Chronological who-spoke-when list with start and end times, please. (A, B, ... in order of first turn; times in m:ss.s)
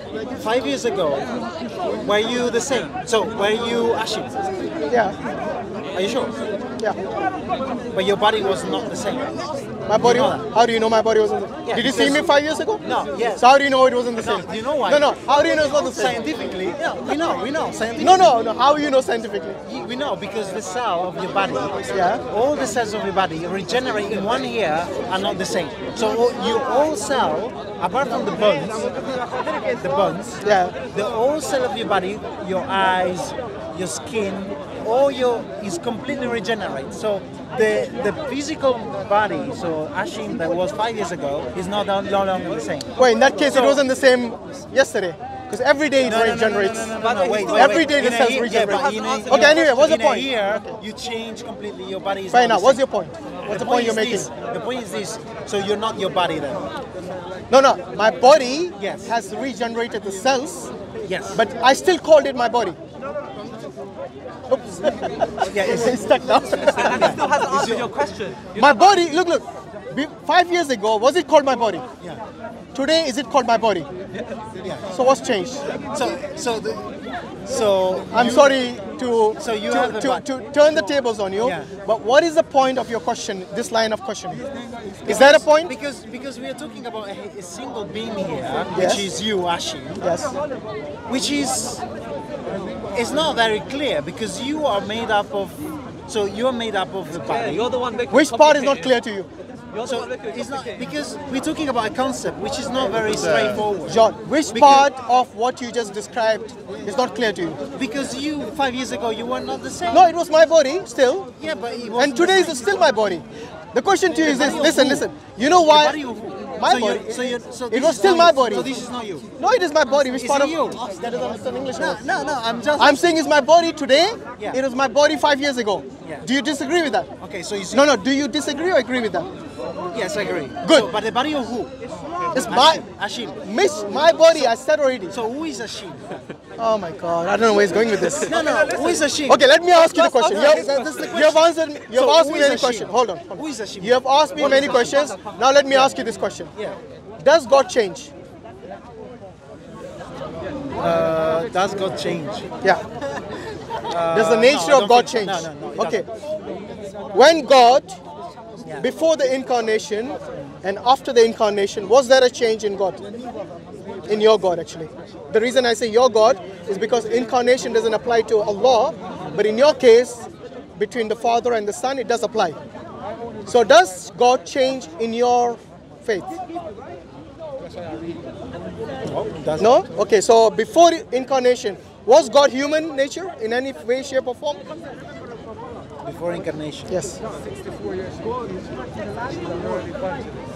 0:00.3-0:01.4 A
0:02.0-0:04.4 A
0:04.9-0:05.2 B
0:05.9-0:06.4 A
0:07.9-0:10.6 A
0:09.9-0:12.8 B
0:11.7-0:12.3 A
0:12.8-0:13.5 A
0:13.4-0:16.2 B
0:14.2-0:18.3 A
0:18.0-0:19.6 B
0:19.6-0:43.8 A
0:21.9-0:22.2 B
0:30.4-0:30.8 B
0:43.0-0:46.9 B
0:46.0-0:52.8 A
0:47.0-0:49.5 C
0:47.5-0:50.8 B
0:52.3-0:54.3 B
0:53.4-0:56.7 A
0:57.5-1:00.7 B
0:58.8-0:59.2 A
1:01.0-1:01.4 A
1:01.3-1:02.8 B
1:04.5-1:07.3 B
1:05.4-1:06.0 A
1:06.7-1:07.9 A
1:06.7-1:09.0 C
1:08.6-1:11.8 B
1:12.7-1:13.9 B
1:14.6-1:14.8 A
1:14.9-1:15.6 B
1:15.9-1:16.9 A
1:17.4-1:18.6 A
1:18.1-1:24.4 B
1:19.4-1:20.3 A
1:21.4-1:21.7 A
1:25.0-1:30.0 A
1:25.0-1:25.7 B
1:28.7-1:29.1 B
1:30.0-1:30.3 B
1:31.1-1:31.8 A
1:32.9-1:37.7 A
1:37.2-1:38.9 C
1:38.1-1:39.3 B
1:39.7-1:40.8 C
1:39.8-1:44.9 A
1:43.9-1:47.6 B
1:47.8-1:50.1 A
1:49.9-1:51.3 B
1:51.4-1:52.8 A
1:52.0-1:56.0 B
1:54.2-1:59.3 A
1:56.6-1:58.7 B
1:59.4-2:02.1 B
2:00.1-2:00.9 A
2:01.7-2:03.1 A
2:02.8-2:07.1 B
2:04.4-2:04.6 A
2:07.2-2:08.0 A
2:07.7-2:09.3 B
2:09.9-2:11.7 A
2:10.6-2:10.9 B
2:12.3-2:12.8 B
2:12.4-2:13.5 A
2:13.4-2:15.2 B
2:14.1-2:14.5 A
2:15.1-2:16.3 A
2:16.6-2:18.4 B
2:18.2-2:25.2 A
2:18.4-2:19.0 C
2:19.3-2:26.5 B
2:25.7-2:26.0 A
2:27.2-2:28.1 B
2:30.8-2:32.5 A
2:33.8-2:36.1 A
2:34.1-2:36.1 B
2:37.1-2:38.0 B
2:38.6-2:38.9 A
2:38.8-2:43.0 B
2:44.1-2:52.6 B
2:53.5-2:56.4 B
2:57.8-2:58.1 A
2:59.0-2:59.9 A
2:59.6-3:04.6 B
3:06.0-3:07.0 A
3:06.9-3:07.2 B